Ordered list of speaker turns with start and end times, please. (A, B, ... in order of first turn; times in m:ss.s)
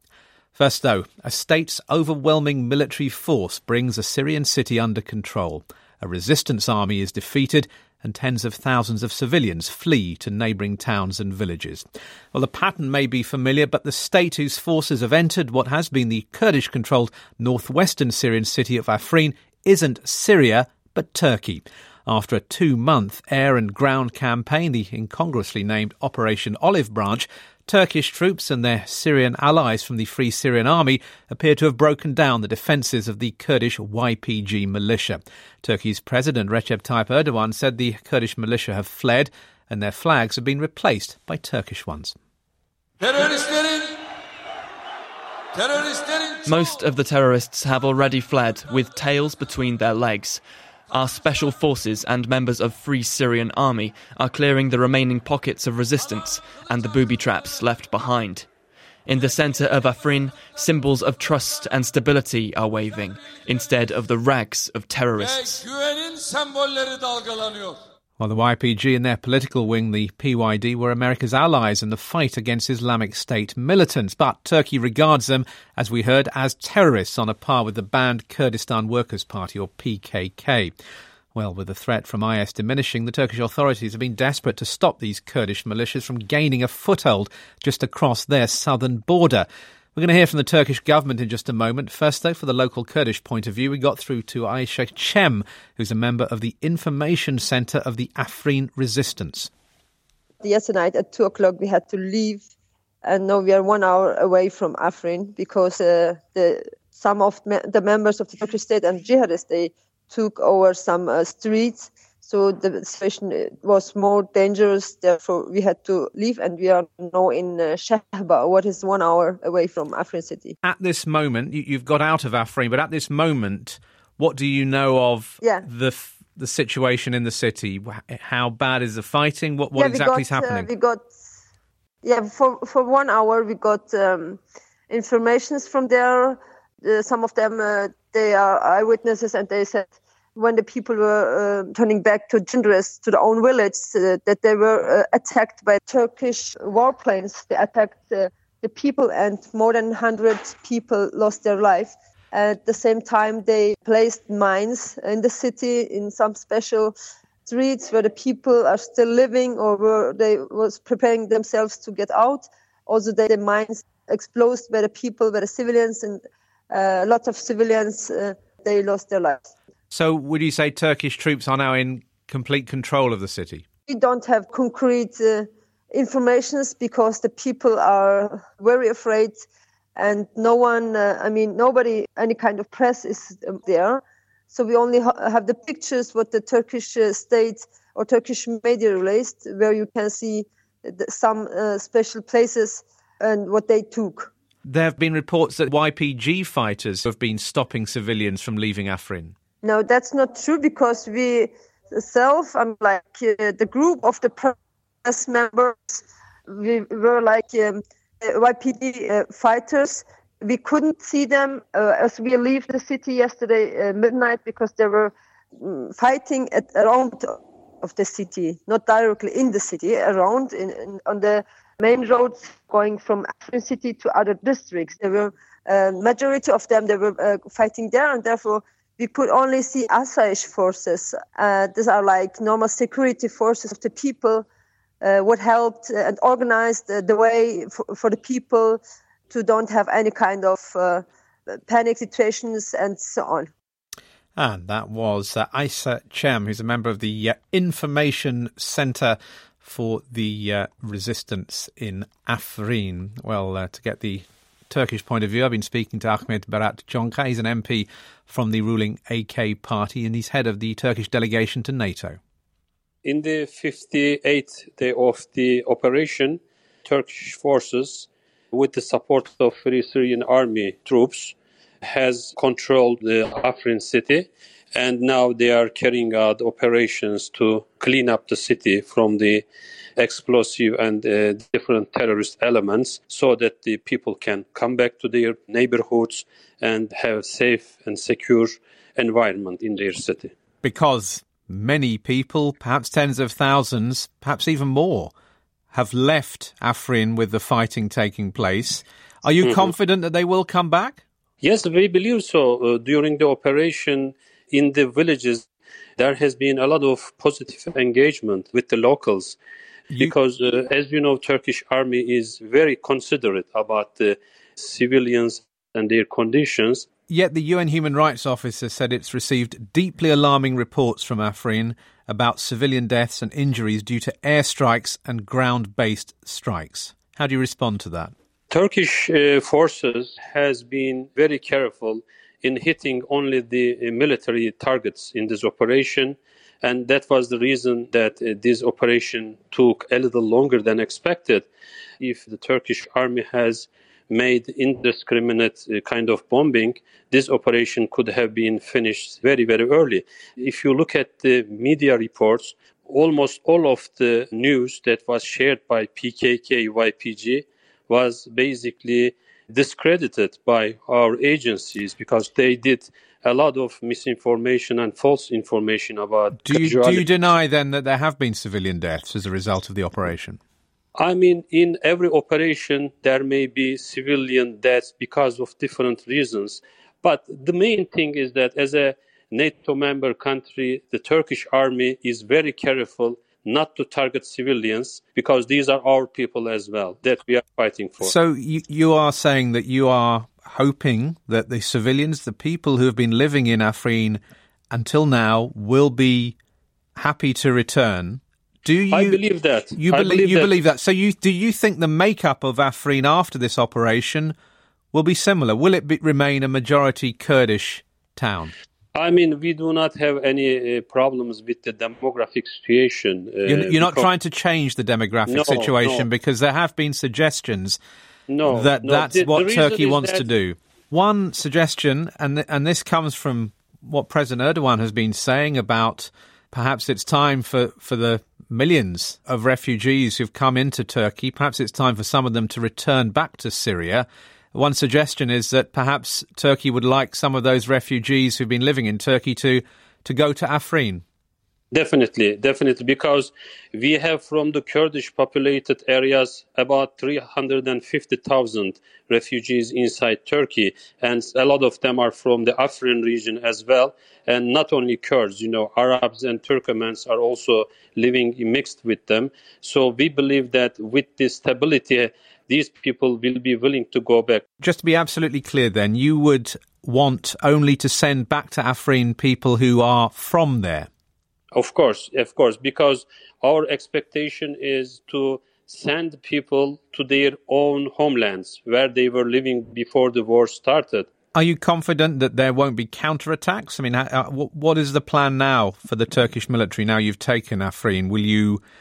0:00.6-0:42.1 A
0:46.4-0:58.5 B
0:59.1-1:05.7 B
1:08.2-1:20.7 A
1:21.3-1:39.5 A
1:40.4-1:42.4 C
1:43.0-2:00.6 C
2:00.6-2:10.7 A
2:09.8-2:11.1 C
2:12.0-2:14.4 C
2:14.9-2:36.9 C
2:37.5-2:49.5 C
2:49.9-2:53.6 A
2:53.9-2:59.4 C
3:00.0-3:14.3 C
3:14.7-3:19.3 A
3:19.6-3:54.4 C
3:55.0-4:03.5 C
4:04.4-4:22.2 A
4:23.0-4:39.4 D
4:40.0-4:50.3 D
4:50.6-4:55.1 A
4:55.7-5:01.0 A
4:59.4-4:59.7 D
5:01.4-5:05.5 D
5:06.0-5:09.4 D
5:10.0-5:16.8 D
5:17.1-5:28.1 A
5:28.5-5:41.5 D
5:42.0-6:07.1 D
6:06.4-6:10.4 A
6:11.0-6:28.1 D
6:28.0-6:36.4 A
6:37.0-6:39.2 A
6:38.9-6:40.5 D
6:39.7-6:44.4 A
6:44.9-6:48.5 A
6:49.0-6:54.1 D
6:53.5-6:57.8 A
6:55.3-6:56.0 D
6:58.3-7:00.2 D
6:58.5-7:21.0 A
7:21.7-7:44.4 D
7:44.6-7:50.9 A
7:51.5-8:01.1 D
8:01.3-8:08.6 A